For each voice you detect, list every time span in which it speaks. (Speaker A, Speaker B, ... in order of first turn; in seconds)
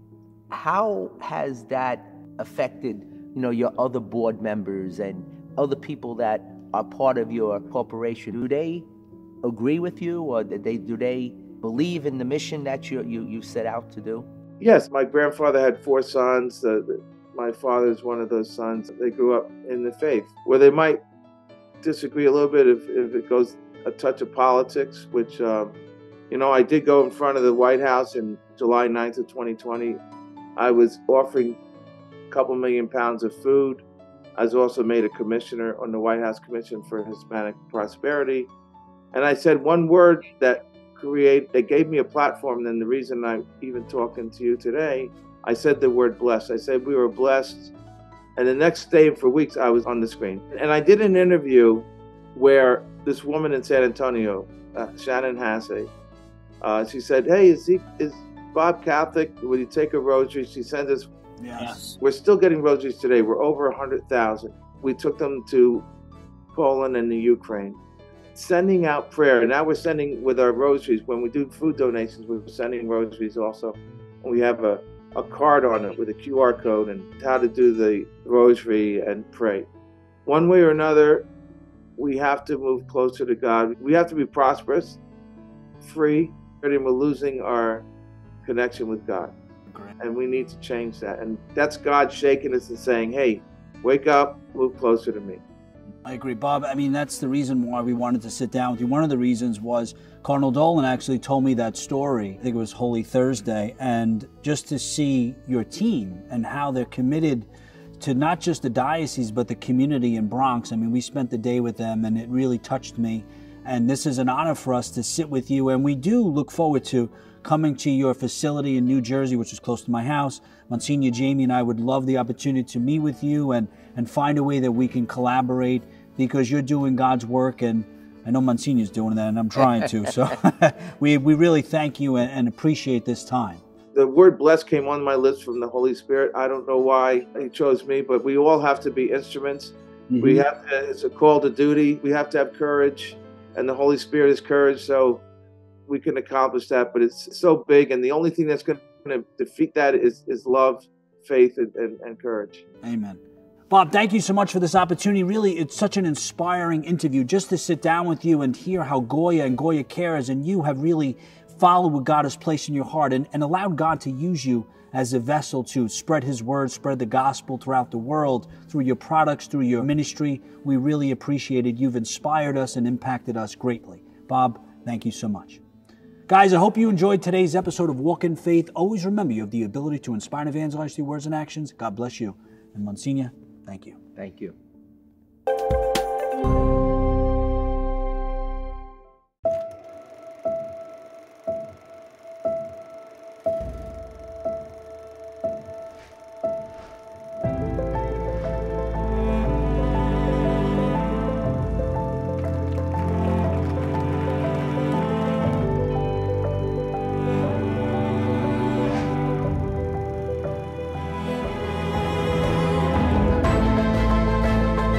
Speaker A: 0.5-8.9, 9.4-14.3, 184.2-184.6
Speaker B: 14.6-21.0, 21.8-25.8, 26.3-30.0, 30.6-31.6, 32.3-33.8, 34.4-38.5, 39.1-47.7, 48.4-55.9, 56.6-61.1, 62.0-65.9, 66.5-67.8, 68.3-79.7, 80.3-81.3, 82.0-85.0, 85.8-87.9, 88.4-89.3, 90.0-95.4, 133.9-145.2, 145.9-152.7
Speaker C: 61.4-62.0, 89.7-89.9, 96.0-107.5, 108.0-133.6, 140.1-140.4, 152.8-175.6, 176.3-184.0